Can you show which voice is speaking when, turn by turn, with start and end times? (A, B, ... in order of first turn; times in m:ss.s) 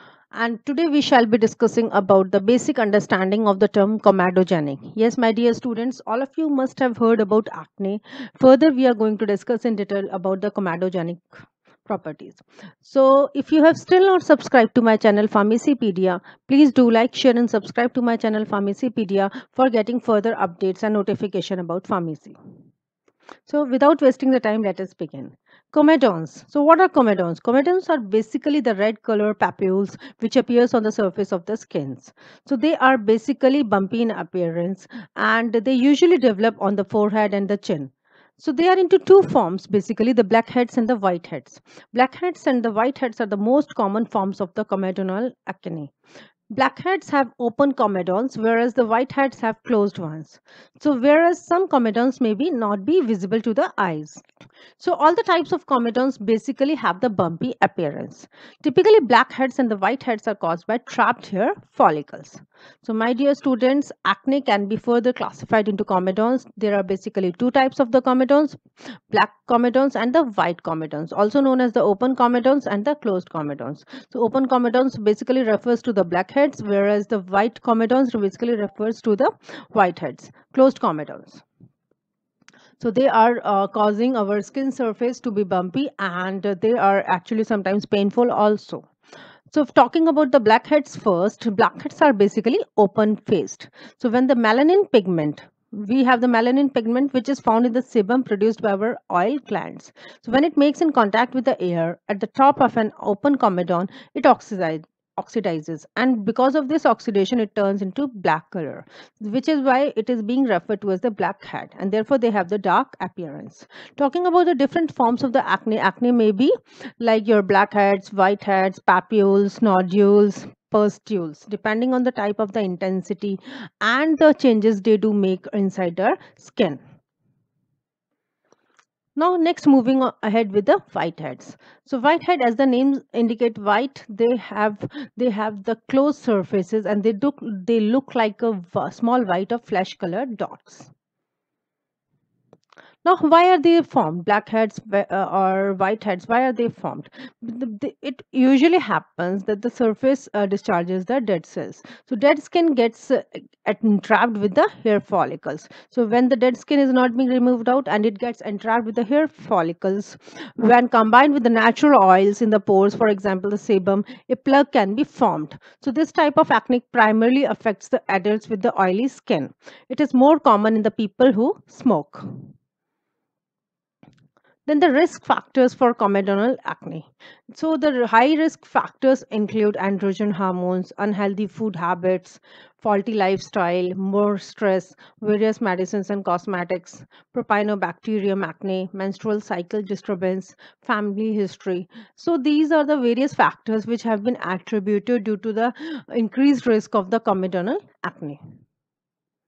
0:00.3-0:22.4 A
0:23.5-0:45.9 A
0:46.5-0:54.2 A
0:54.8-1:21.4 A
1:22.8-1:28.9 A
1:29.5-2:06.8 A
2:09.2-2:20.9 A
2:23.0-2:52.3 A
2:54.7-3:18.4 A